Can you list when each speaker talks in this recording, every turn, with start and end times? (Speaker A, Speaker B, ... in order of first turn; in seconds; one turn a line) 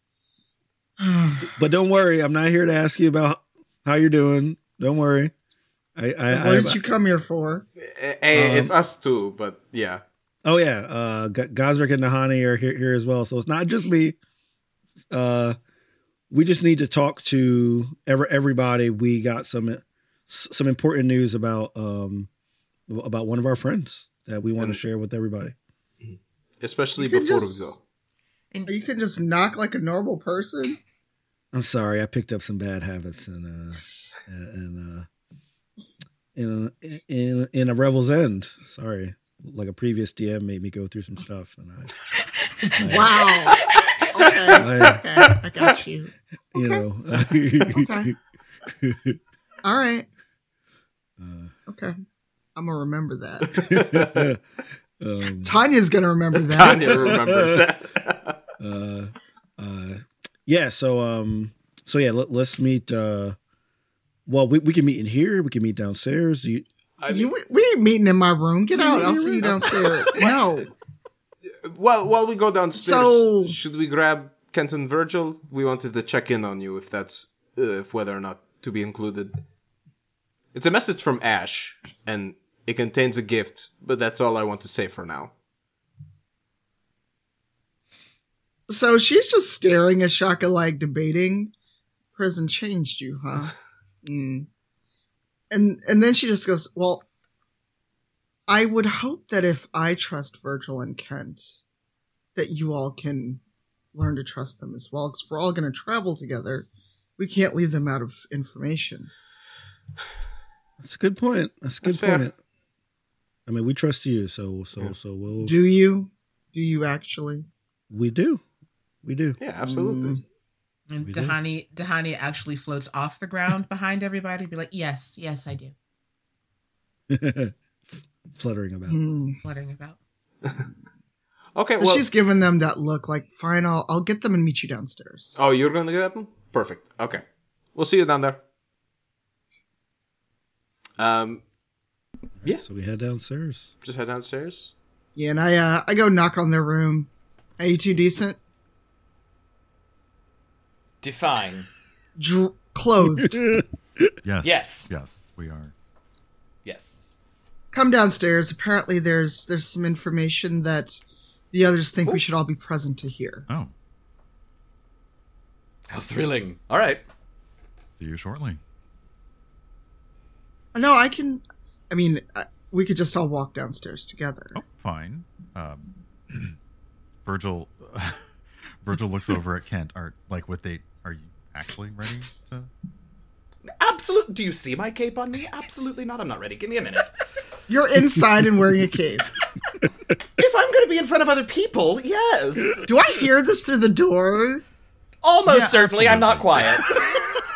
Speaker A: 1.0-1.5
Speaker B: 1.4-5.3
Speaker B: 6.0-6.8
Speaker A: 6.3-7.7
Speaker C: 7.8-10.0
Speaker B: 8.3-8.7
Speaker B: 10.4-14.2
Speaker B: 15.1-15.6
Speaker B: 16.3-22.3
Speaker B: 22.9-25.5
Speaker C: 26.0-27.8
Speaker A: 27.0-27.8
Speaker A: 28.7-30.8
Speaker B: 31.5-35.0
Speaker B: 36.3-42.0
Speaker D: 42.4-42.7
Speaker B: 42.8-43.2
Speaker A: 42.8-46.8
Speaker D: 43.5-44.1
Speaker B: 44.6-45.0
Speaker B: 46.5-48.1
Speaker A: 47.6-48.1
Speaker B: 48.7-49.2
Speaker A: 49.6-50.1
Speaker B: 51.2-51.5
Speaker A: 51.7-51.9
Speaker A: 52.5-53.9
Speaker C: 53.6-54.3
Speaker B: 53.6-54.4
Speaker B: 55.0-55.6
Speaker A: 55.4-57.2
Speaker C: 56.5-58.4
Speaker B: 56.6-57.7
Speaker B: 58.6-63.4
Speaker B: 64.2-66.7
Speaker C: 67.0-67.3
Speaker A: 67.1-70.7
Speaker C: 68.8-70.4
Speaker C: 71.6-79.4
Speaker A: 72.8-73.5
Speaker C: 80.5-85.3
Speaker A: 88.7-91.5
Speaker A: 92.2-94.5
Speaker A: 95.5-97.0
Speaker A: 98.5-101.6
Speaker A: 102.3-103.4
Speaker A: 103.9-106.7
Speaker A: 107.2-109.1
Speaker B: 110.8-112.3
Speaker C: 111.8-112.3
Speaker B: 113.5-115.5
Speaker A: 115.4-117.5
Speaker B: 117.9-118.4
Speaker B: 119.0-119.4
Speaker C: 119.4-120.2
Speaker A: 119.6-120.2
Speaker D: 120.9-125.7
Speaker B: 121.0-121.4
Speaker B: 127.1-129.0
Speaker A: 128.9-129.4
Speaker D: 129.4-130.0
Speaker C: 131.6-132.1
Speaker A: 131.8-135.3
Speaker C: 135.4-137.2
Speaker C: 137.7-138.4
Speaker C: 141.0-141.4
Speaker B: 142.4-143.7
Speaker C: 143.8-144.7
Speaker A: 145.2-148.4
Speaker E: 151.0-151.7
Speaker A: 152.2-153.4
Speaker B: 153.2-154.1
Speaker F: 154.2-155.7
Speaker E: 154.4-154.9
Speaker E: 156.6-157.0
Speaker A: 157.7-161.0
Speaker A: 161.5-163.5
Speaker F: 163.5-163.7
Speaker E: 165.9-167.0
Speaker F: 168.0-168.6
Speaker A: 170.7-174.6
Speaker F: 174.5-176.6
Speaker F: 177.2-178.3
Speaker F: 178.8-182.7
Speaker E: 183.8-187.2
Speaker A: 187.7-189.2
Speaker E: 190.4-192.9
Speaker A: 192.8-194.6
Speaker E: 195.2-197.0
Speaker F: 195.4-197.2